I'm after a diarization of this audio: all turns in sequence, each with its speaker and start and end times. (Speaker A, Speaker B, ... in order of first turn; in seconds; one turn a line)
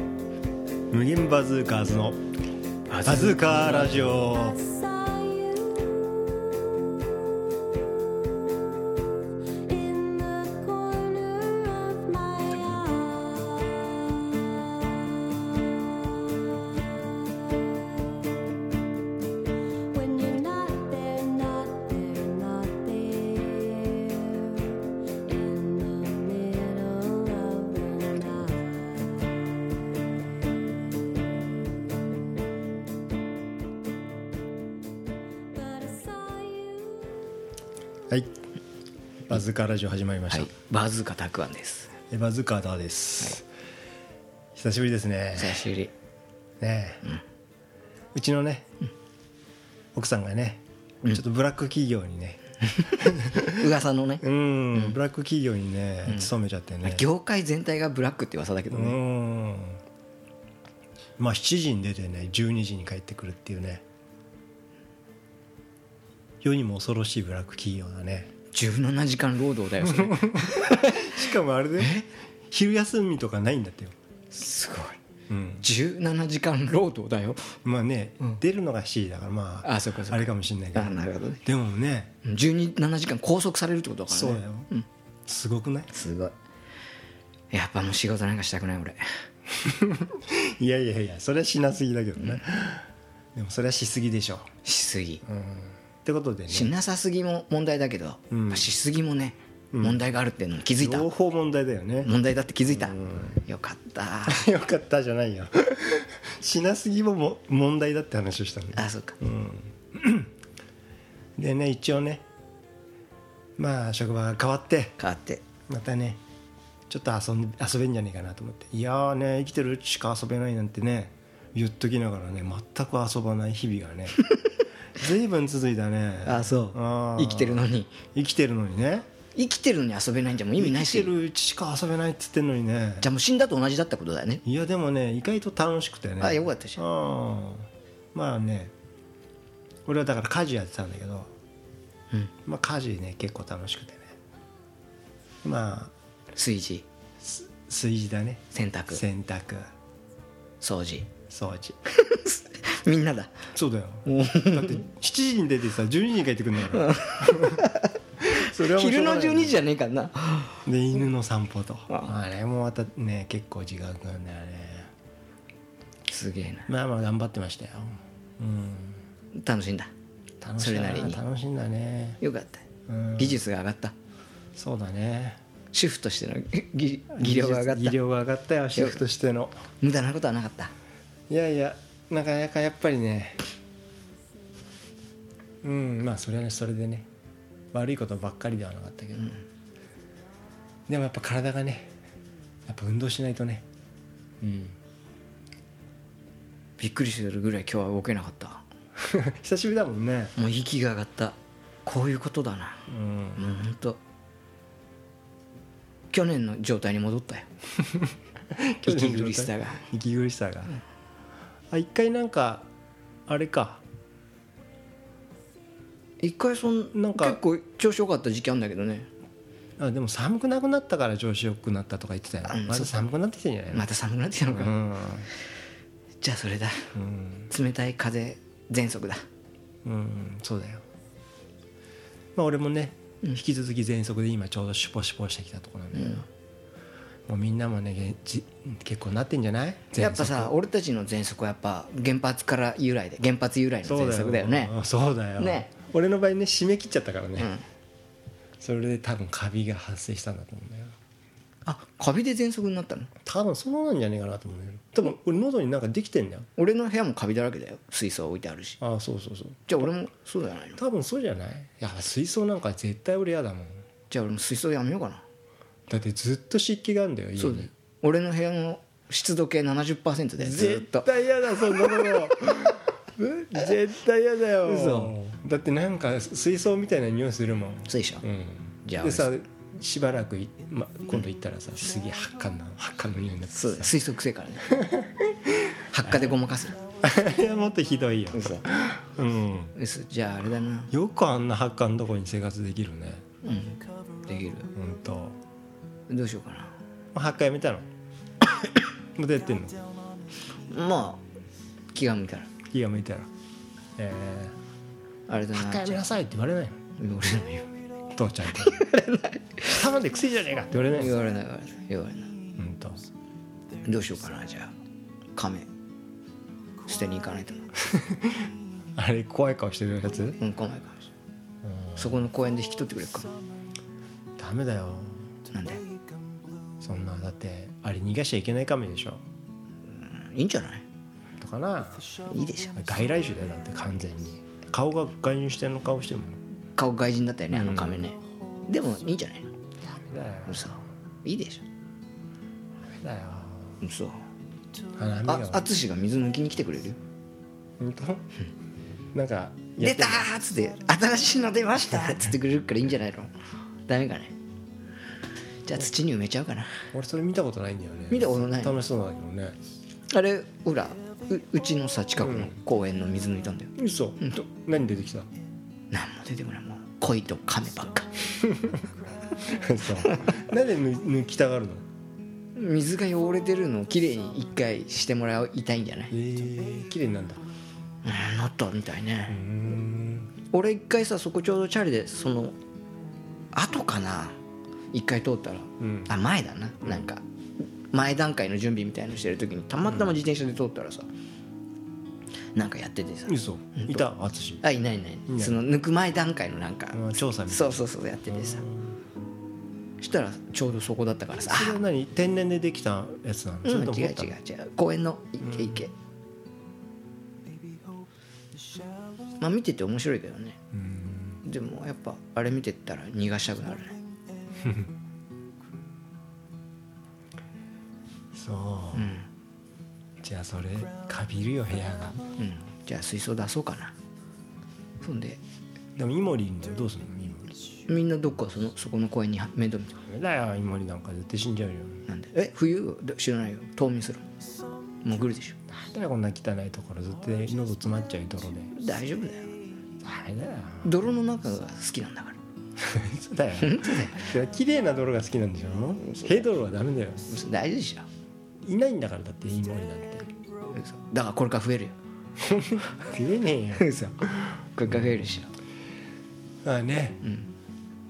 Speaker A: 0.9-2.2
Speaker B: 2.9-4.2
Speaker A: 3.0-4.7
Speaker C: 4.9-6.0
Speaker C: 9.7-13.5
Speaker C: 19.9-24.7
Speaker C: 25.3-28.9
Speaker C: 35.7-37.0
Speaker A: 39.3-40.5
Speaker B: 40.3-41.9
Speaker A: 42.1-43.5
Speaker A: 44.5-45.7
Speaker B: 45.4-45.9
Speaker A: 46.6-47.1
Speaker A: 48.1-48.7
Speaker A: 49.9-53.7
Speaker B: 52.8-55.0
Speaker A: 54.2-57.1
Speaker B: 56.1-56.3
Speaker B: 56.8-59.0
Speaker A: 58.7-59.8
Speaker A: 61.2-63.8
Speaker A: 66.4-68.3
Speaker B: 68.5-72.1
Speaker A: 69.8-74.0
Speaker B: 74.3-75.0
Speaker A: 75.3-75.7
Speaker B: 75.6-77.6
Speaker A: 77.7-82.1
Speaker B: 79.6-81.4
Speaker B: 82.2-84.9
Speaker A: 84.1-84.7
Speaker A: 85.3-85.9
Speaker B: 85.9-86.3
Speaker B: 87.5-89.2
Speaker A: 89.5-94.5
Speaker B: 94.6-95.2
Speaker A: 95.3-96.7
Speaker B: 96.5-101.1
Speaker A: 98.3-98.7
Speaker A: 99.7-100.0
Speaker A: 100.8-102.1
Speaker B: 102.0-104.5
Speaker A: 102.7-103.4
Speaker A: 104.3-110.3
Speaker B: 108.8-109.2
Speaker A: 111.4-112.2
Speaker A: 113.6-115.0
Speaker B: 115.0-115.4
Speaker A: 115.7-116.2
Speaker A: 116.9-124.2
Speaker A: 125.0-129.1
Speaker B: 126.2-128.0
Speaker B: 129.3-131.1
Speaker A: 130.6-133.1
Speaker B: 133.0-134.4
Speaker A: 134.4-138.7
Speaker B: 136.2-136.8
Speaker A: 139.9-141.3
Speaker A: 142.5-144.2
Speaker A: 145.4-145.9
Speaker B: 146.3-146.8
Speaker A: 147.2-149.7
Speaker B: 148.5-149.0
Speaker B: 150.6-151.1
Speaker A: 151.3-151.8
Speaker B: 151.9-153.5
Speaker A: 153.5-157.7
Speaker B: 154.1-154.9
Speaker B: 156.7-160.7
Speaker A: 158.2-159.6
Speaker A: 160.7-164.9
Speaker B: 166.1-166.7
Speaker A: 166.7-169.0
Speaker B: 169.3-169.9
Speaker A: 170.4-172.2
Speaker B: 170.6-171.2
Speaker B: 172.2-172.7
Speaker A: 172.9-173.4
Speaker B: 173.2-173.9
Speaker A: 174.6-175.4
Speaker B: 175.7-178.0
Speaker A: 177.2-179.7
Speaker B: 178.8-179.0
Speaker B: 179.8-180.7
Speaker A: 181.3-183.4
Speaker A: 185.6-187.1
Speaker A: 187.7-189.4
Speaker A: 190.9-191.9
Speaker A: 192.7-193.7
Speaker A: 194.4-194.8
Speaker B: 196.8-198.7
Speaker A: 199.0-200.3
Speaker B: 200.4-204.0
Speaker A: 202.9-203.4
Speaker B: 206.1-207.5
Speaker A: 208.0-210.8
Speaker B: 208.9-209.8
Speaker A: 211.7-212.7
Speaker A: 213.3-213.8
Speaker B: 216.2-219.1
Speaker A: 216.9-217.4
Speaker A: 219.8-223.9
Speaker B: 222.4-223.0
Speaker B: 223.7-224.8
Speaker A: 224.5-225.3
Speaker B: 226.2-226.9
Speaker A: 226.9-227.5
Speaker B: 227.5-229.2
Speaker A: 229.8-230.8
Speaker A: 232.3-236.3
Speaker B: 235.9-236.3
Speaker A: 237.3-240.6
Speaker B: 240.0-244.7
Speaker A: 243.8-247.5
Speaker B: 245.4-245.7
Speaker B: 247.4-247.7
Speaker A: 248.6-251.0
Speaker B: 251.7-253.1
Speaker A: 253.2-256.5
Speaker B: 256.6-258.8
Speaker A: 258.8-259.7
Speaker B: 259.7-260.8
Speaker A: 260.8-263.8
Speaker B: 264.1-265.2
Speaker A: 265.9-267.7
Speaker B: 267.4-272.4
Speaker A: 270.4-283.9
Speaker B: 274.6-275.2
Speaker B: 277.9-278.2
Speaker B: 278.9-279.3
Speaker B: 283.5-284.7
Speaker A: 284.7-286.4
Speaker B: 285.9-286.8
Speaker A: 287.0-289.7
Speaker B: 288.3-288.6
Speaker B: 289.8-290.9
Speaker A: 290.9-293.2
Speaker B: 293.4-294.7
Speaker A: 294.8-295.4
Speaker B: 296.1-296.8
Speaker A: 297.1-297.9
Speaker A: 299.2-299.8
Speaker B: 300.7-301.2
Speaker B: 301.9-302.5
Speaker A: 302.7-303.3
Speaker A: 304.0-304.6
Speaker B: 305.3-306.1
Speaker A: 305.6-306.8
Speaker B: 307.0-307.7
Speaker A: 308.1-308.8
Speaker B: 308.5-309.7
Speaker A: 309.6-311.2
Speaker B: 310.9-312.3
Speaker A: 312.6-313.0
Speaker B: 313.8-314.7
Speaker B: 315.4-315.7
Speaker B: 316.9-317.7
Speaker A: 317.9-320.4
Speaker B: 320.4-321.1
Speaker A: 321.6-322.2
Speaker B: 322.0-323.3
Speaker A: 324.4-325.3
Speaker B: 325.5-325.9
Speaker A: 326.8-329.2
Speaker B: 329.9-330.8
Speaker A: 331.4-332.2
Speaker B: 332.2-332.8
Speaker A: 332.7-336.4
Speaker B: 336.8-339.5
Speaker A: 337.5-338.1
Speaker A: 339.9-340.8
Speaker B: 340.5-341.6
Speaker A: 342.8-343.8
Speaker B: 343.8-344.2
Speaker A: 344.9-345.7
Speaker B: 345.3-347.0
Speaker A: 347.8-348.3
Speaker A: 349.1-350.3
Speaker B: 349.8-353.3
Speaker B: 353.9-354.3
Speaker B: 355.6-356.9
Speaker A: 356.9-359.6
Speaker B: 358.1-358.8
Speaker B: 360.1-364.5
Speaker A: 362.2-362.6
Speaker A: 363.8-365.3
Speaker B: 365.9-368.3
Speaker A: 368.4-371.9
Speaker B: 370.0-370.4
Speaker B: 372.6-376.1
Speaker A: 376.1-377.4
Speaker B: 378.0-379.4
Speaker A: 379.3-380.3
Speaker B: 380.5-382.6
Speaker B: 383.5-384.4
Speaker B: 384.9-391.1
Speaker A: 385.8-386.1
Speaker B: 392.6-394.1
Speaker A: 393.3-394.6
Speaker B: 394.6-398.6
Speaker A: 395.3-395.6
Speaker A: 396.9-399.0
Speaker B: 400.0-401.8
Speaker A: 401.5-404.4
Speaker B: 403.6-405.9
Speaker B: 409.4-410.6
Speaker A: 410.7-411.4
Speaker B: 411.4-414.0
Speaker A: 414.6-414.9
Speaker A: 418.3-419.2
Speaker B: 418.9-419.3
Speaker A: 420.2-422.2
Speaker B: 422.4-423.9
Speaker B: 425.0-425.4
Speaker A: 426.0-427.5
Speaker B: 427.9-430.0
Speaker A: 430.1-432.1
Speaker B: 432.1-434.2
Speaker B: 435.0-435.6
Speaker A: 435.7-438.8
Speaker B: 438.8-439.6
Speaker A: 440.0-440.9
Speaker B: 440.8-442.4
Speaker A: 442.8-447.4
Speaker B: 443.6-444.3
Speaker B: 446.0-446.4
Speaker B: 447.3-448.1
Speaker A: 448.6-450.3
Speaker B: 450.7-451.9
Speaker A: 452.4-454.0
Speaker B: 453.8-455.5
Speaker A: 456.6-457.3
Speaker B: 457.2-457.5